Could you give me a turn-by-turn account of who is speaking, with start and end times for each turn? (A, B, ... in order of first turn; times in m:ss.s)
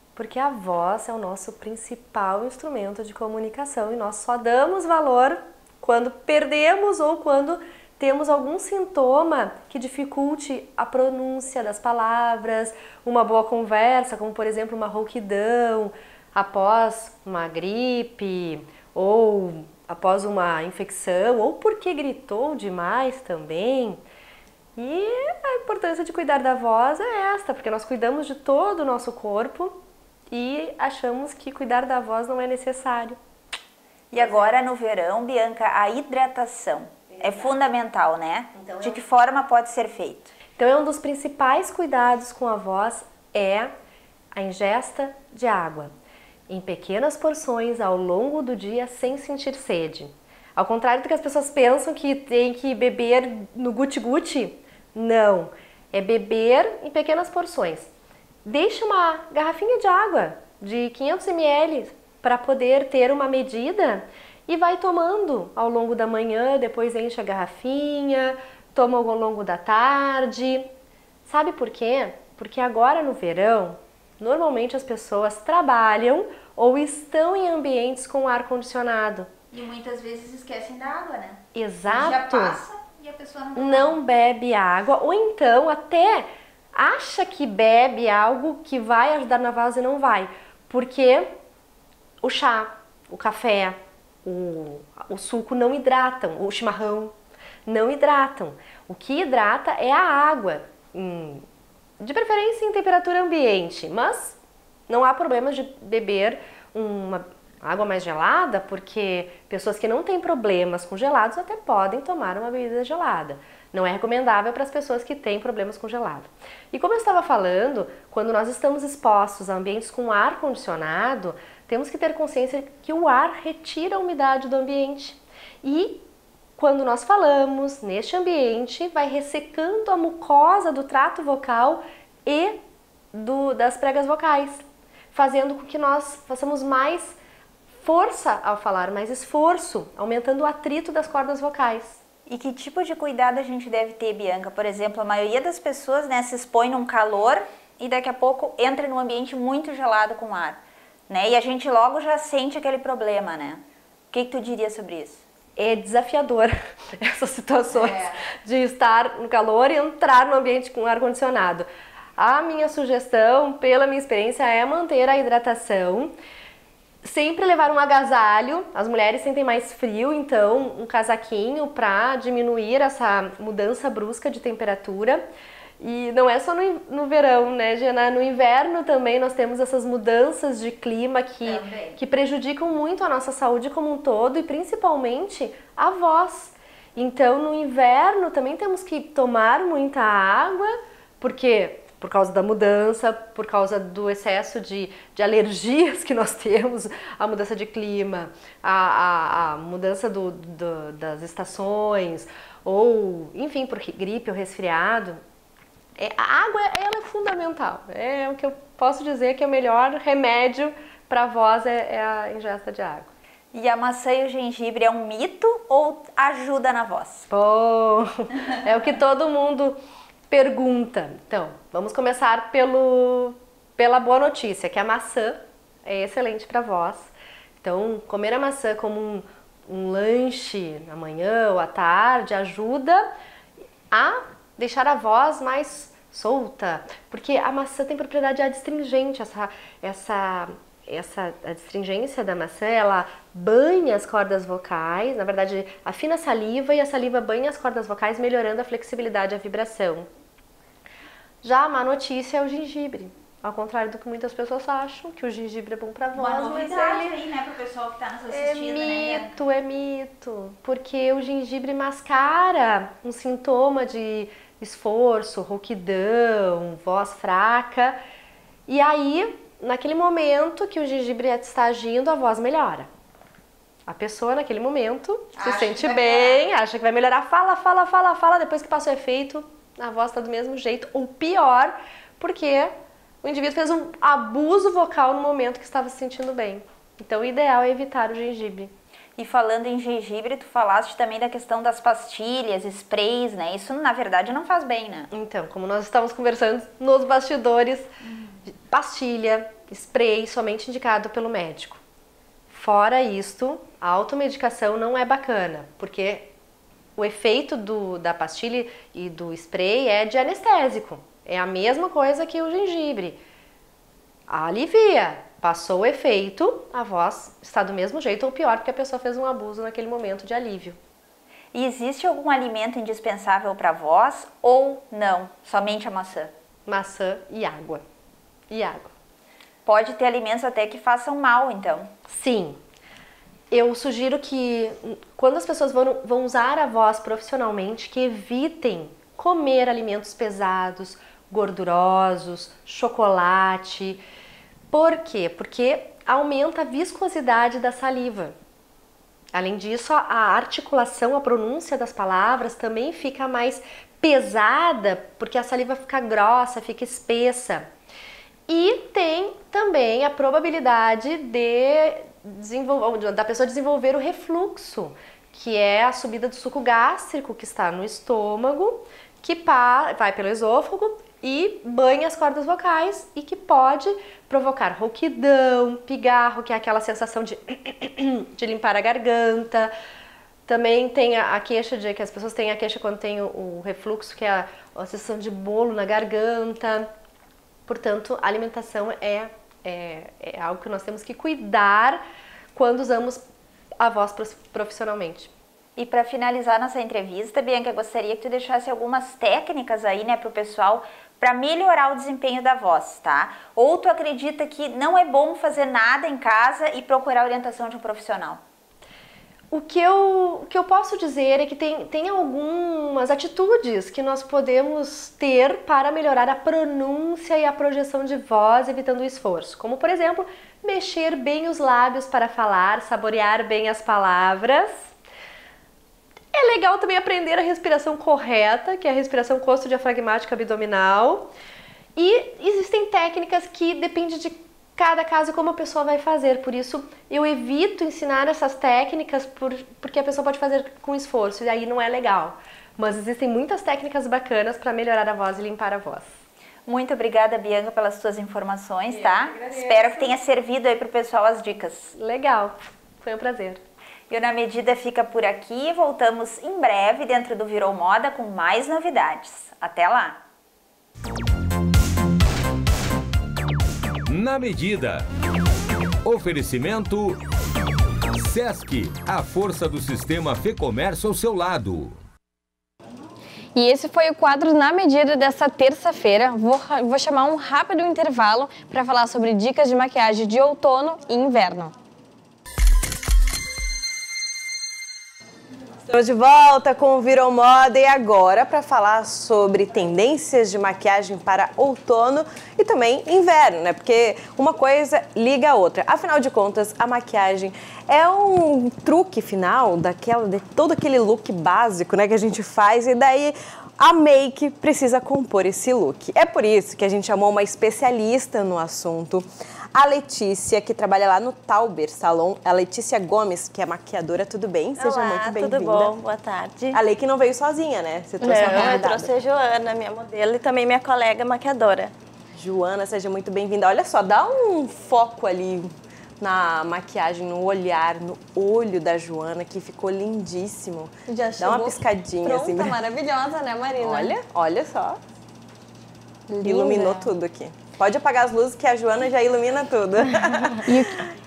0:00.2-0:24.0 A
0:24.8-0:29.8 A
0:30.3-0:33.2 A
0:34.1-0:40.3 B
0:38.6-0:38.9 A
0:40.6-0:43.7 A
0:44.3-0:45.9 A
0:46.5-0:57.9 A
0:58.4-1:10.7 A
1:11.3-1:19.3 A
1:19.5-1:24.0 B
1:21.5-1:22.6 A
1:23.6-1:31.3 A
1:32.2-1:37.2 A
1:37.7-1:41.4 A
1:42.0-1:44.4 A
1:44.9-2:06.0 A
2:06.6-2:12.6 A
2:13.1-2:17.2 A
2:17.8-2:22.0 A
2:22.3-2:35.2 B
2:35.6-2:46.2 A
2:37.7-2:38.1 B
2:47.0-2:55.2 A
2:55.8-3:25.2 A
3:01.4-3:02.0 B
3:26.0-3:33.1 A
3:33.5-3:37.3 B
3:37.3-3:53.1 A
3:53.9-4:10.1 A
4:11.4-4:17.1 A
4:16.1-4:19.4 B
4:18.3-4:28.0 A
4:28.7-4:32.9 A
4:33.9-4:48.7 A
4:35.4-4:36.5 B
4:49.2-4:55.1 B
4:55.1-4:57.9 A
4:58.7-5:01.8 A
5:02.5-5:06.3 A
5:07.0-5:13.2 A
5:14.3-5:20.8 A
5:21.5-5:26.3 B
5:26.7-5:27.8 A
5:28.5-5:28.9 A
5:29.6-5:31.9 B
5:32.1-5:32.6 A
5:33.5-5:44.0 A
5:44.7-5:48.4 A
5:49.3-5:57.7 A
5:58.5-6:19.7 A
6:20.5-6:26.9 A
6:27.7-6:32.0 A
6:32.5-6:33.2 A
6:33.8-6:35.3 A
6:35.8-6:48.4 B
6:49.5-7:04.7 A
7:06.3-7:11.3 A
7:12.0-7:26.1 A
7:26.7-7:31.9 B
7:32.0-7:33.6 A
7:34.1-7:40.2 B
7:44.1-7:45.1 C
7:46.0-7:47.2 C
7:48.2-7:52.0 C
7:53.6-8:01.7 D
8:05.9-8:36.0 E
8:34.8-8:36.8 F
8:36.7-8:39.2 E
8:38.2-8:38.9 D
8:38.2-8:41.9 F
8:42.4-8:52.8 E
8:51.1-8:54.1 D
8:53.8-8:55.0 E
8:56.3-8:57.1 D
8:56.4-9:00.7 E
9:00.7-9:01.0 D